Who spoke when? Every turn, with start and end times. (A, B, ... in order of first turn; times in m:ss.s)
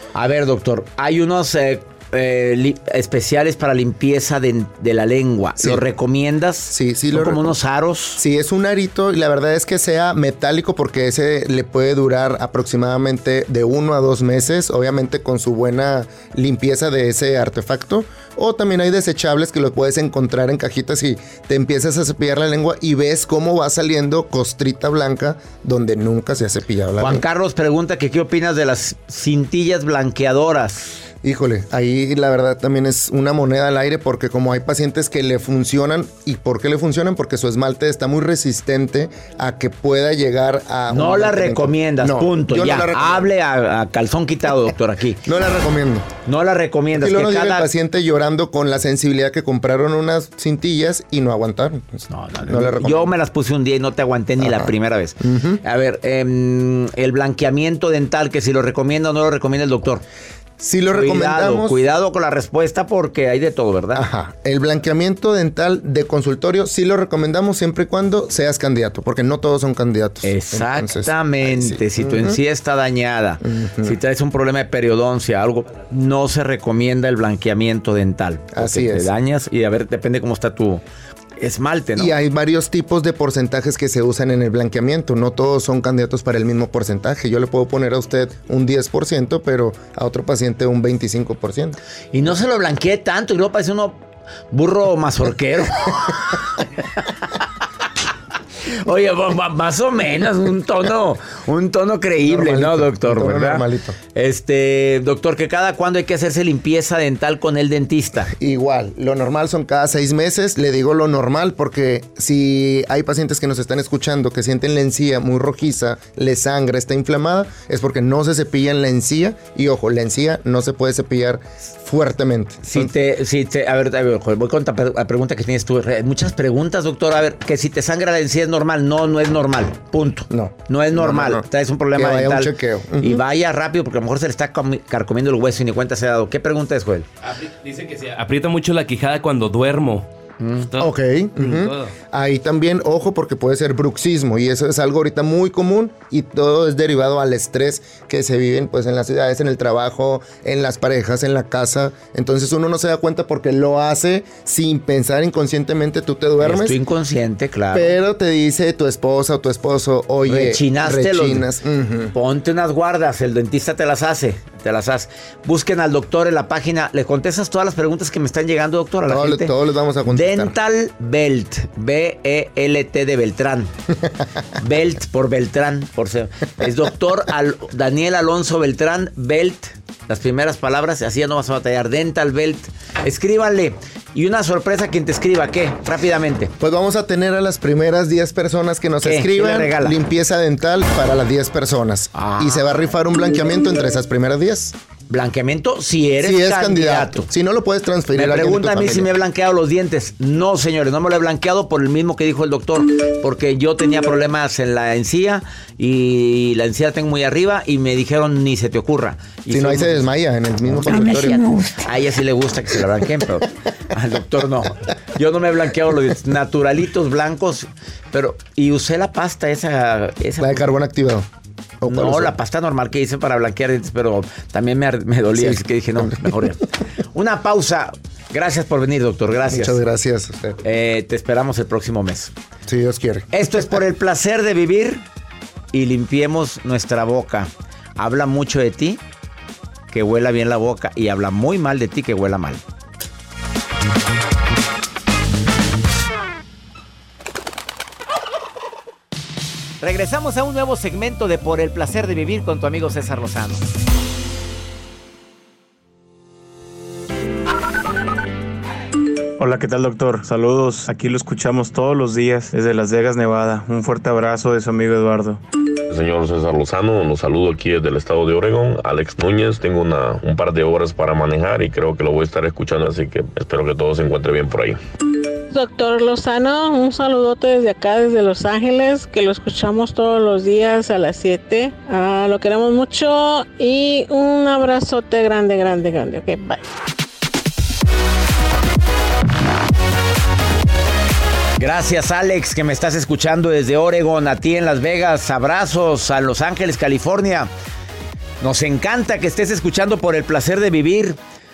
0:00.1-0:08.2 A
0:06.7-0:07.5 B
0:08.2-0:27.2 B
0:27.0-0:31.0 A
0:31.2-0:43.3 B
0:40.9-0:45.2 A
0:45.2-0:46.1 B
0:46.2-0:47.7 A
0:46.9-0:53.0 B
0:52.1-1:00.0 A
0:54.4-0:54.7 B
0:55.2-0:55.6 B
1:00.6-1:01.8 B
1:00.9-1:04.0 A
1:03.9-1:12.4 B
1:10.2-1:20.8 A
1:13.4-1:14.0 B
1:18.6-1:19.1 B
1:21.4-1:22.1 A
1:22.0-1:31.8 B
1:32.1-1:37.0 A
1:38.7-1:48.3 A
1:42.2-1:44.0 B
1:48.3-2:02.9 B
2:02.6-2:17.1 A
2:10.3-2:11.4 B
2:12.0-2:13.2 B
2:17.2-2:20.1 C
2:20.4-2:20.6 A
2:20.6-2:21.9 C
2:20.8-2:36.8 B
2:36.4-2:38.0 A
2:37.7-2:42.1 B
2:40.2-2:41.4 A
2:42.1-2:49.5 A
2:49.0-2:50.5 B
2:50.0-2:53.7 A
2:54.6-3:06.5 A
3:06.6-3:14.7 B
3:09.0-3:10.0 A
3:12.1-3:12.8 A
3:15.1-3:17.3 A
3:16.2-3:19.1 B
3:18.1-3:30.1 A
3:29.5-3:31.5 B
3:30.6-3:40.7 A
3:40.4-3:41.2 B
3:41.8-3:42.3 B
3:41.8-3:49.8 A
3:45.3-3:46.3 B
3:49.5-3:50.6 B
3:50.6-3:52.3 A
3:52.7-3:53.3 B
3:53.3-3:55.0 A
3:55.7-3:59.0 A
3:59.9-4:02.6 A
4:09.8-4:13.6 A
4:19.4-4:25.4 D
4:25.9-4:34.8 E
4:35.5-4:46.6 F
4:51.6-4:57.5 A
4:58.4-5:01.2 A